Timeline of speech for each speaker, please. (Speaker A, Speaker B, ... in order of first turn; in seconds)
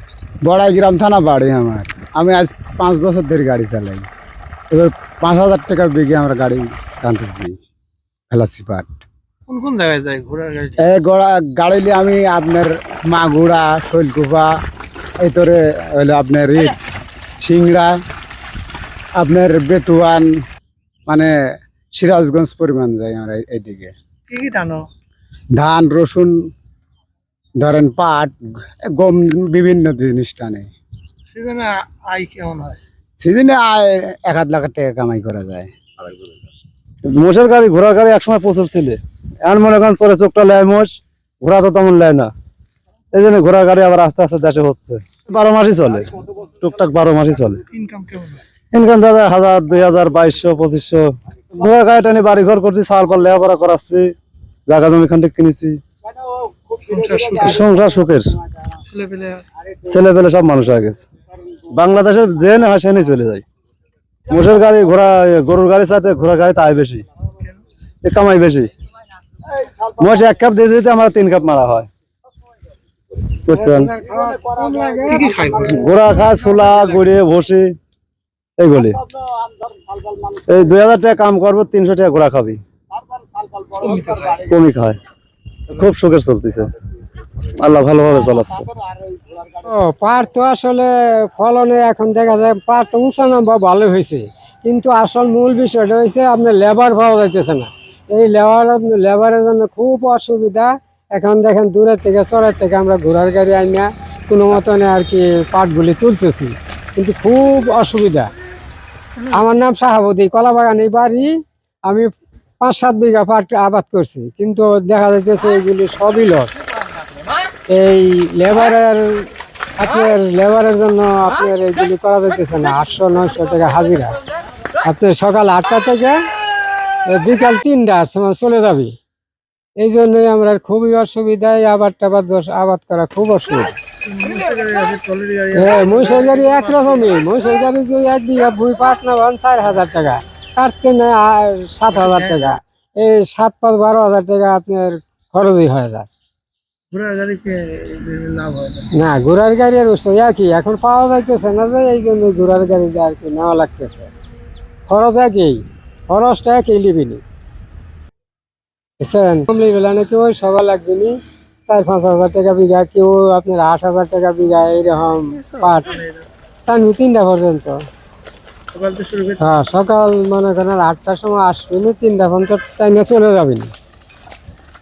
Speaker A: 0.5-4.0, 4.7-7.6, 8.3-8.9, 10.8-14.5, 15.2-16.8, 17.4-17.9, 19.2-20.3, 21.9-23.9, 25.6-26.3, 27.6-28.4, 28.9-30.7, 33.2-35.7
Speaker B: 9.5-10.8, 24.3-24.9, 31.3-32.8, 47.7-48.4, 56.9-57.6, 58.8-59.5, 75.1-75.9, 83.7-84.4, 134.0-137.2, 141.9-142.5, 146.9-148.9, 165.5-166.3, 168.7-169.4
Speaker C: 37.0-42.3, 43.1-47.6, 48.7-54.1, 54.7-55.8, 57.3-58.3, 59.8-61.1, 61.7-63.4, 64.3-67.0, 68.0-68.7, 70.0-71.9, 73.5-73.9, 75.6-77.7, 78.6-79.0, 80.5-82.6, 84.3-85.0, 85.7-86.7, 87.6-88.7
Speaker D: 73.5-75.5, 89.6-108.3, 109.3-111.3, 112.6-116.5, 117.7-124.2, 124.9-126.2, 127.1-128.9, 129.8-133.7, 135.5-146.1, 148.9-154.1, 154.9-157.2, 159.0-161.1, 161.7-166.0, 166.7-167.8, 169.4-173.7